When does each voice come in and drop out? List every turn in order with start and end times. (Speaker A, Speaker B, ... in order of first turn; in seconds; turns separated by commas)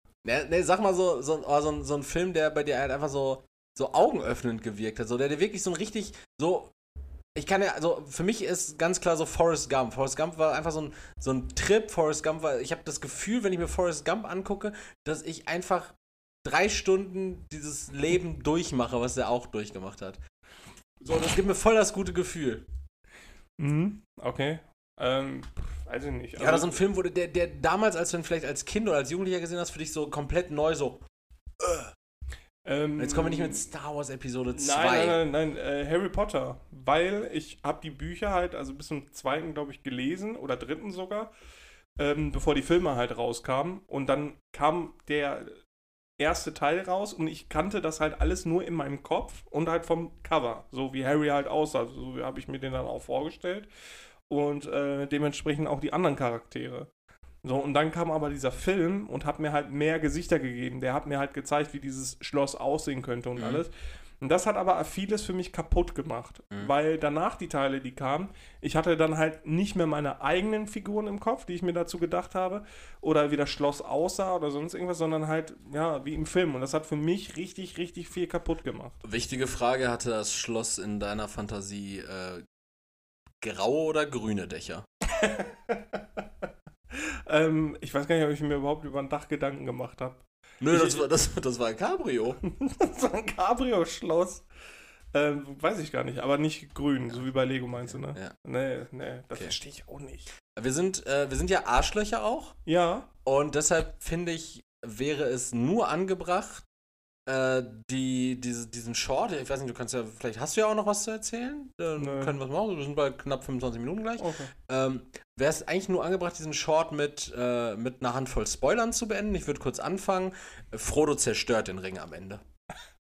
Speaker A: 0.2-6.7, Speaker A: 7.4-20.2, Speaker A: 21.0-22.6, Speaker B: 23.6-26.8, Speaker A: 26.4-31.0, Speaker A: 31.6-31.9, Speaker B: 32.6-33.7, Speaker A: 33.0-35.2, Speaker B: 34.5-41.3, Speaker B: 42.0-45.6, Speaker B: 46.2-53.7, Speaker B: 54.3-56.9, Speaker B: 57.4-79.0, Speaker A: 63.4-63.6, Speaker A: 79.0-82.5, Speaker A: 83.4-84.9, Speaker B: 85.2-86.2, Speaker B: 86.9-91.0, Speaker A: 90.6-92.4, Speaker B: 92.4-94.5, Speaker B: 95.1-100.3, Speaker A: 97.7-98.3, Speaker A: 100.5-102.6, Speaker B: 102.7-103.1, Speaker A: 103.2-106.7, Speaker A: 107.3-122.4, Speaker B: 112.0-112.4, Speaker B: 114.2-114.5